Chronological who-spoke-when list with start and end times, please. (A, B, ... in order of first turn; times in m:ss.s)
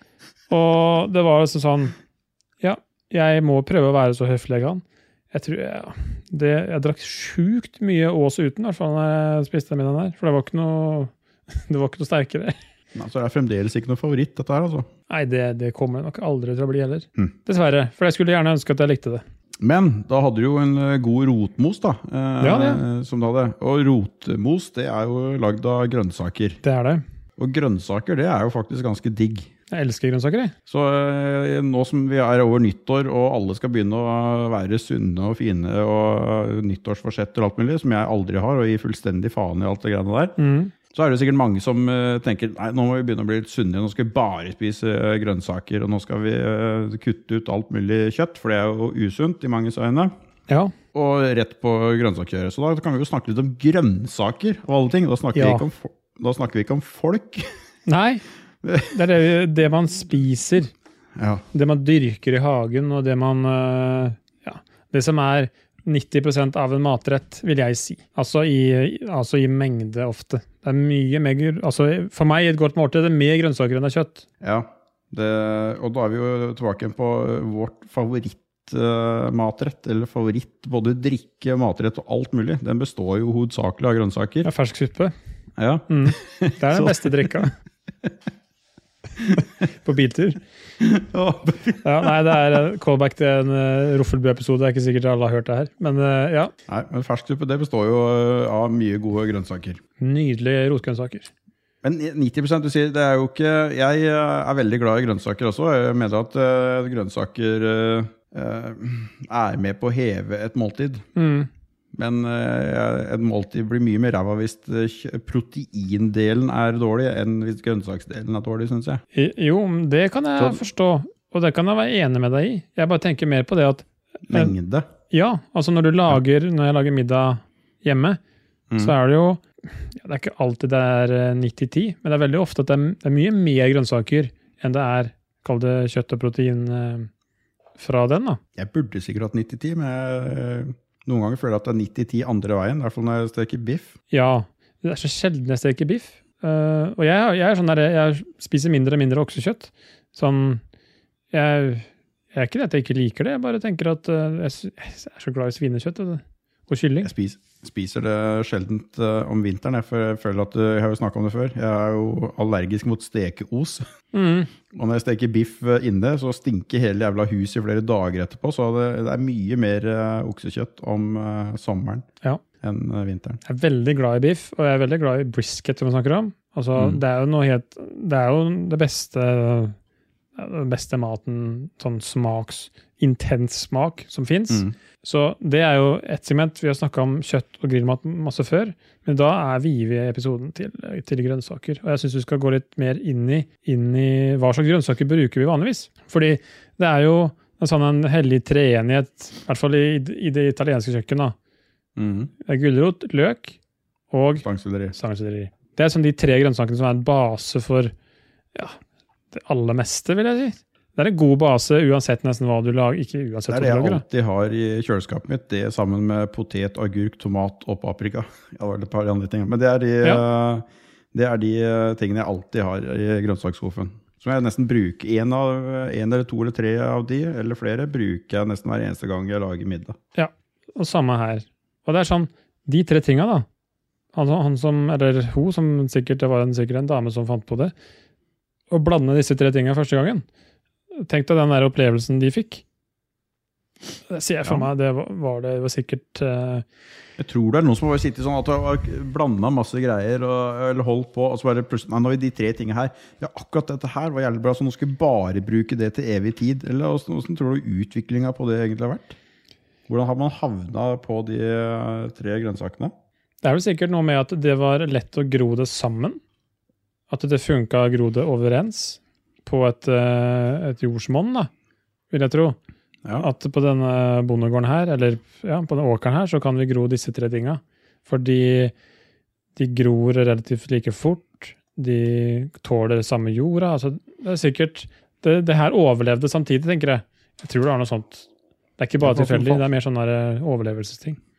0:00.5-0:01.9 A
0:02.6-0:12.6 A
0:12.9-0:14.9 B
0:15.1-0:19.2 A
0:19.6-0:26.6 B
0:22.4-0:22.8 A
0:26.6-0:27.0 A
0:27.4-0:29.5 B
0:29.7-0:30.5 A
0:30.7-0:40.4 B
0:40.4-0:40.7 A
0:40.9-0:50.1 B
0:50.9-0:57.5 B
0:55.3-0:55.6 A
0:57.9-0:58.2 A
0:58.6-0:58.9 B
0:58.9-1:00.7 A
1:01.1-1:01.4 B
1:01.5-1:14.2 A
1:14.4-1:24.5 B
1:24.4-1:25.1 A
1:25.6-1:27.4 B
1:25.9-1:27.5 A
1:29.2-1:29.4 B
1:29.4-1:30.4 A
1:30.8-1:32.1 B
1:31.8-1:36.5 A
1:36.7-1:39.8 B
1:40.0-1:41.3 A
1:41.8-1:51.0 B
1:51.1-1:51.5 A
1:51.9-1:59.0 B
1:59.1-2:04.5 A
2:00.4-2:00.6 B
2:04.3-2:04.9 B
2:05.1-2:08.2 A
2:08.7-2:08.9 B
2:08.8-2:17.1 A
2:17.8-2:18.4 A
2:18.6-2:23.9 B
2:24.1-2:30.6 A
2:31.3-2:37.1 A
2:37.0-2:43.8 B
2:44.1-2:44.5 A
2:44.7-2:52.1 B
2:52.6-2:53.4 B
2:53.4-2:59.8 A
3:00.4-3:21.3 A
3:22.0-3:22.3 B
3:22.4-3:23.6 A
3:24.1-3:27.9 A
3:24.4-3:24.9 B
3:29.3-3:34.0 A
3:33.5-3:50.0 B
3:50.1-3:53.4 A
3:54.1-3:57.7 A
3:58.7-4:00.2 A
4:00.9-4:02.6 A
4:04.1-4:06.6 A
4:07.2-4:19.2 B
4:19.9-4:22.9 B
4:23.4-4:26.2 A
4:27.1-4:31.5 A
4:32.1-4:32.6 A
4:33.2-4:38.7 A
4:39.6-4:48.3 A
4:48.8-4:51.2 A
4:49.0-4:49.6 B